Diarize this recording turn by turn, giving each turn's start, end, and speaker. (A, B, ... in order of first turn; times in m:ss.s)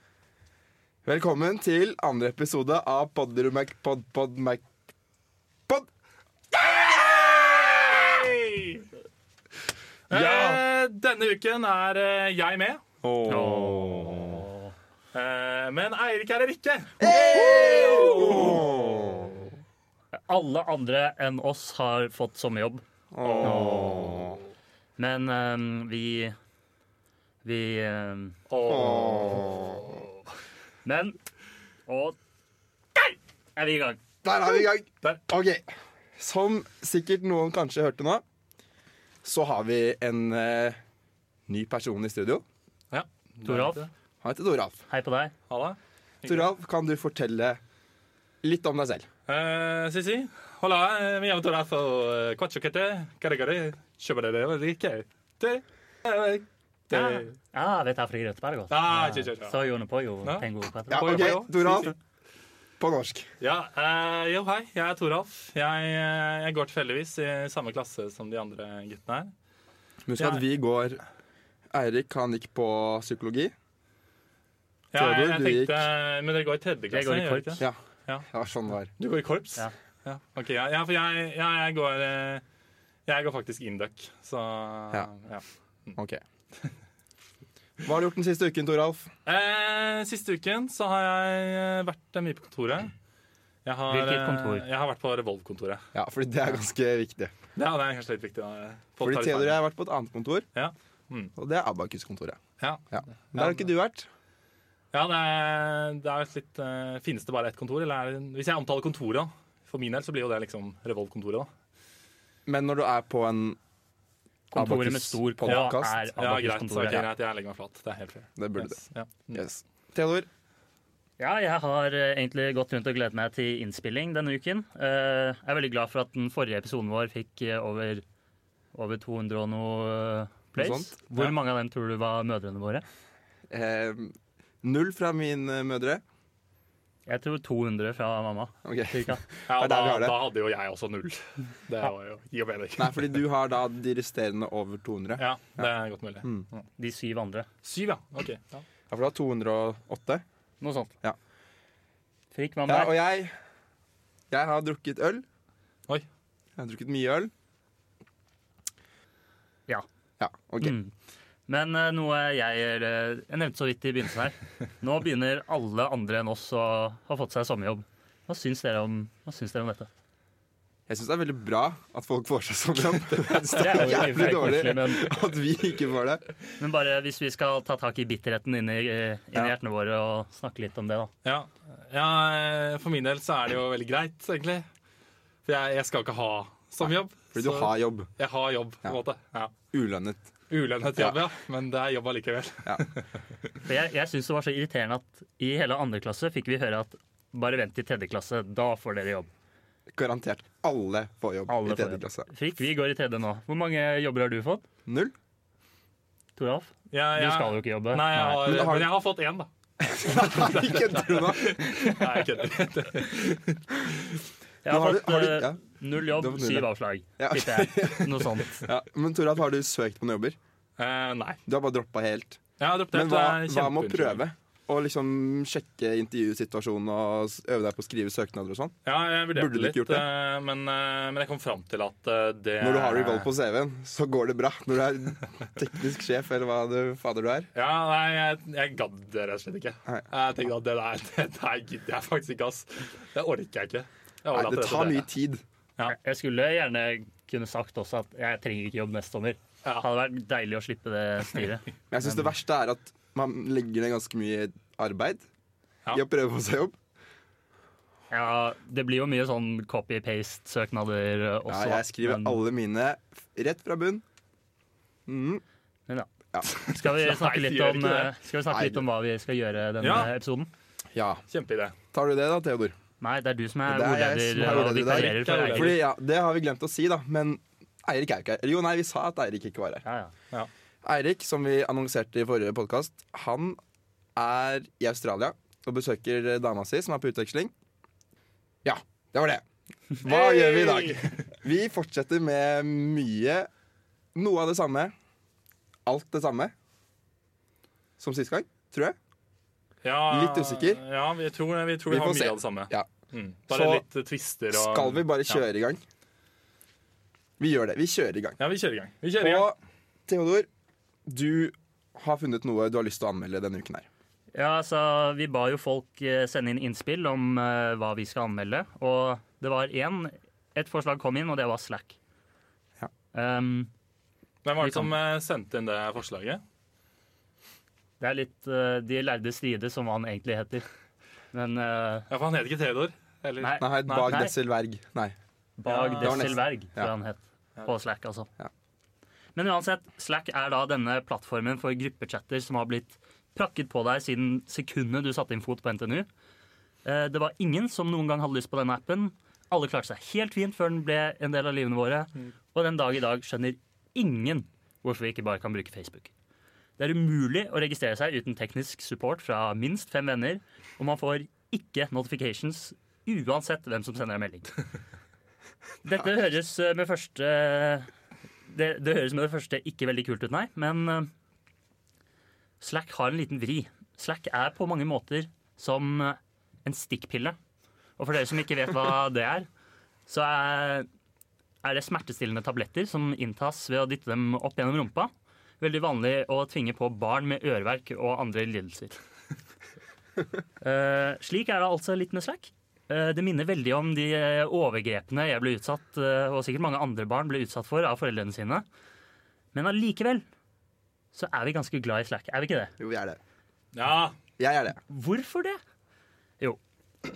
0:01.0-0:04.7 A
0:06.5-0:08.0 A
0:07.3-0:08.8 B
0:10.1-0:10.6 A
0:10.1-0:12.8 B
0:13.0-0:14.4 A
0:13.3-0:14.7 C
0:15.1-0:18.6 B
0:17.0-0:19.5 A
0:20.1-0:24.3 C
0:23.1-0:24.4 A
0:23.3-0:23.6 B
0:25.0-0:26.3 C
0:27.4-0:28.4 C
0:28.5-0:30.1 B
0:28.6-0:30.0 A
0:30.8-0:31.2 C
0:31.9-0:32.2 C
0:33.6-0:34.0 C
0:34.2-0:38.2 A
0:39.2-0:40.8 A
0:41.5-0:42.4 A
0:42.9-0:43.9 B
0:43.4-0:43.8 C
0:44.2-0:44.8 A
0:44.9-0:45.3 C
0:45.5-0:46.5 B
0:46.2-0:47.6 A
0:48.4-0:49.1 A
0:49.3-0:57.3 B
0:56.9-0:57.2 A
0:56.9-1:01.4 C
0:58.7-0:59.6 B
1:00.2-1:01.9 B
1:00.9-1:01.9 A
1:02.8-1:03.3 A
1:03.4-1:09.3 B
1:10.1-1:11.0 A
1:11.7-1:13.5 A
1:14.9-1:18.2 B
1:14.9-1:15.9 A
1:16.9-1:17.6 C
1:17.6-1:18.9 A
1:19.0-1:22.4 B
1:23.1-1:25.4 B
1:26.0-1:26.2 A
1:27.8-1:29.1 A
1:29.2-1:32.9 B
1:33.6-1:35.8 B
1:33.9-1:34.6 C
1:35.9-1:37.3 A
1:37.5-1:39.6 B
1:39.0-1:40.4 A
1:40.5-1:41.3 B
1:41.4-1:42.4 A
1:42.6-1:43.7 B
1:42.9-1:44.1 A
1:44.9-1:51.5 B
1:52.4-1:53.6 A
1:54.5-1:56.0 A
1:54.5-1:57.1 C
1:55.4-1:59.4 B
1:58.4-1:58.8 A
1:59.3-2:00.3 A
2:01.2-2:08.0 C
2:08.7-2:12.8 C
2:10.5-2:10.9 A
2:13.5-2:16.0 A
2:17.1-2:19.2 C
2:18.6-2:20.2 A
2:19.5-2:23.1 B
2:22.8-2:25.6 A
2:25.2-2:26.6 B
2:26.8-2:27.5 C
2:27.6-2:28.6 B
2:28.9-2:30.2 A
2:30.6-2:30.9 C
2:32.3-2:32.9 C
2:32.7-2:33.3 A
2:34.3-2:35.2 A
2:36.6-2:37.3 A
2:40.2-2:40.8 A
2:40.6-2:40.9 C
2:41.5-2:49.9 C
2:50.9-2:56.2 A
2:53.2-2:54.5 B
2:53.3-2:55.1 C
2:56.6-3:01.1 C
3:01.2-3:04.6 B
3:05.4-3:09.5 B
3:06.8-3:08.1 A
3:09.7-3:10.3 A
3:10.5-3:13.0 B
3:13.6-3:19.3 C
3:19.9-3:22.3 A
3:21.5-3:24.6 C
3:24.9-3:25.1 A
3:26.4-3:28.6 C
3:26.9-3:29.5 B
3:28.4-3:28.9 A
3:29.8-3:31.7 A
3:30.1-3:34.2 B
3:34.6-3:38.7 C
3:34.6-3:36.7 A
3:37.2-3:40.4 A
3:40.8-3:41.4 B
3:41.5-3:42.4 A
3:42.6-3:44.2 B
3:42.9-3:48.7 A
3:48.8-3:53.3 B
3:49.3-3:50.1 A
3:52.6-3:57.5 A
3:57.5-4:05.1 B
4:04.3-4:05.4 A
4:05.8-4:12.3 C
4:11.9-4:15.2 A
4:15.9-4:16.8 A
4:18.1-4:22.4 C
4:21.5-4:24.0 A
4:25.1-4:25.4 A
4:25.9-4:30.5 C
4:26.6-4:28.1 B
4:28.5-4:28.8 A
4:29.8-4:30.1 B
4:30.9-4:31.2 A
4:31.3-4:31.7 B
4:31.9-4:32.8 A
4:33.0-4:35.7 C
4:33.7-4:39.8 A
4:34.4-4:35.8 B
4:39.8-4:40.1 C
4:40.8-4:43.6 A
4:44.2-4:47.5 A
4:48.6-4:49.4 A
4:50.0-4:53.5 A
4:50.0-4:51.1 B
4:54.1-4:54.9 A
4:55.8-4:56.5 A
4:58.0-4:59.0 A
4:59.8-5:05.4 B
5:00.1-5:00.8 A
5:01.9-5:02.9 A
5:03.5-5:03.8 A
5:04.5-5:05.8 A
5:07.4-5:08.4 A
5:08.4-5:09.5 B
5:09.2-5:10.5 A
5:11.0-5:13.8 A
5:14.3-5:22.0 C
5:23.1-5:23.7 C
5:24.4-5:26.4 B
5:24.6-5:24.9 C
5:28.0-5:30.6 C
5:31.3-5:32.0 C
5:32.1-5:34.1 B
5:33.4-5:34.3 C
5:33.6-5:35.1 A
5:35.6-5:38.3 C
5:35.7-5:36.4 B
5:36.0-5:36.9 A
5:39.3-5:46.1 C
5:46.8-5:56.1 C
5:56.8-6:04.5 C
6:05.8-6:07.9 C
6:08.5-6:11.1 C
6:12.6-6:17.4 C
6:18.0-6:19.5 C
6:20.1-6:20.9 C
6:21.6-6:29.0 C
6:30.6-6:38.6 C
6:39.5-6:40.2 C
6:41.1-6:42.7 C
6:42.8-6:43.2 A
6:43.7-6:44.1 B
6:44.4-6:44.8 A
6:44.9-6:45.6 C